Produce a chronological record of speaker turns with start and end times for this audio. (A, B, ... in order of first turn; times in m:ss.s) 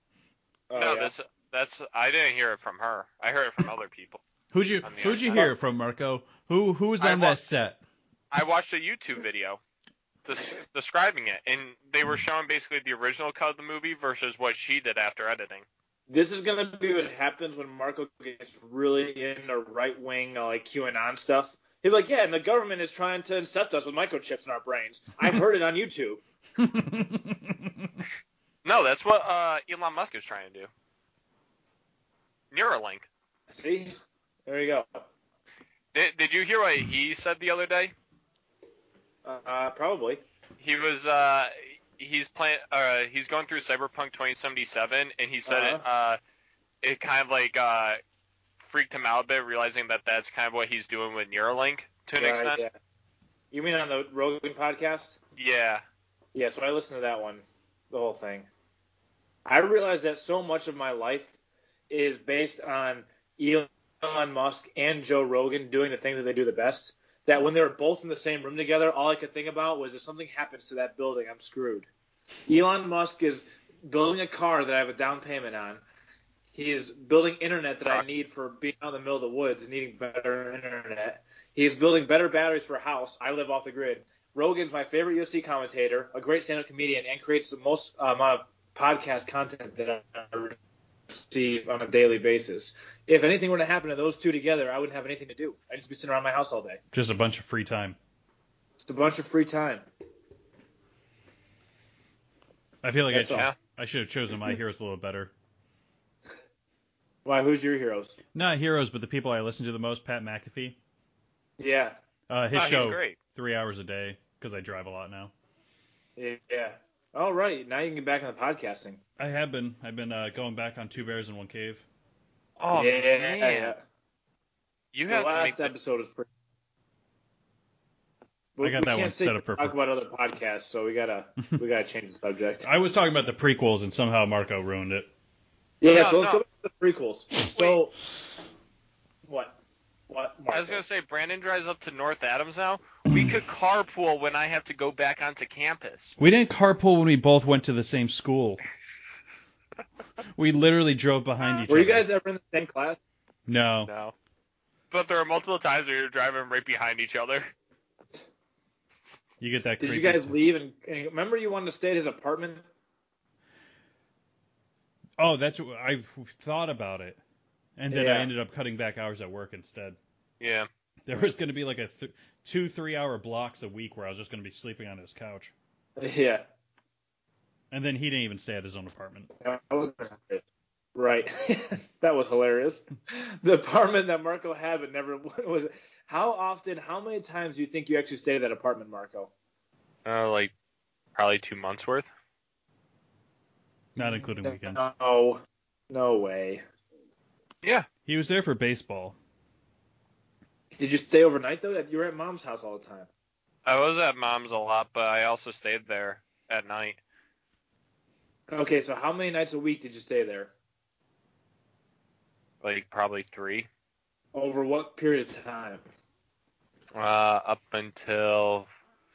0:00.7-0:01.1 A
0:00.8-0:04.2 B
0:04.5-0:07.8 C
0:04.8-0:05.4 B
0:07.0-0:07.4 B
0:08.3-0:09.6 B
0:10.2-0:15.6 B
0:16.1-0:26.2 A
0:26.6-0:28.0 C
0:28.6-0:30.7 B
0:32.5-0:33.1 B
0:33.5-0:35.1 A
0:35.9-0:37.9 B
0:39.2-0:40.2 A
0:40.6-0:46.2 B
0:45.4-0:45.8 A
0:46.8-0:48.0 B
0:48.6-0:52.6 B
0:52.2-0:52.7 A
0:53.5-0:55.2 A
0:55.4-0:55.8 B
0:56.3-0:58.5 A
0:59.4-1:01.3 A
1:01.9-1:11.9 A
1:12.5-1:15.8 A
1:16.5-1:30.6 A
1:31.1-1:36.8 A
1:36.9-1:38.0 C
1:38.8-1:39.8 A
1:42.8-1:45.3 C
1:43.1-1:43.5 A
1:47.2-1:48.2 A
1:48.3-1:50.8 C
1:51.6-1:52.0 A
1:52.3-1:55.3 C
1:52.5-1:53.2 B
1:56.2-1:59.0 A
1:59.2-2:01.8 C
2:02.6-2:03.7 B
2:02.7-2:03.8 A
2:04.9-2:05.7 B
2:05.1-2:06.3 A
2:08.6-2:12.7 A
2:08.6-2:09.8 C
2:12.6-2:15.1 C
2:15.8-2:17.9 A
2:15.9-2:16.4 B
2:17.5-2:17.8 B
2:19.2-2:19.6 A
2:20.1-2:20.8 A
2:20.5-2:26.2 B
2:23.1-2:23.4 C
2:26.2-2:28.6 C
2:30.4-2:32.0 C
2:31.7-2:33.0 A
2:33.5-2:33.9 C
2:33.9-2:34.1 B
2:34.9-2:37.5 B
2:39.4-2:40.3 C
2:39.8-2:42.6 A
2:45.2-2:47.2 C
2:47.8-2:50.0 C
2:47.9-2:48.3 A
2:50.4-2:50.7 B
2:51.0-2:55.5 C
2:56.0-2:56.4 A
2:57.7-2:59.3 C
2:59.4-3:00.4 A
3:00.9-3:09.3 A
3:10.0-3:10.5 B
3:11.2-3:12.1 B
3:14.0-3:14.9 C
3:14.0-3:16.6 A
3:18.0-3:19.2 C
3:20.8-3:23.1 A
3:23.6-3:27.0 B
3:28.5-3:30.5 A
3:32.6-3:33.7 B
3:34.3-3:35.8 A
3:36.9-3:38.7 B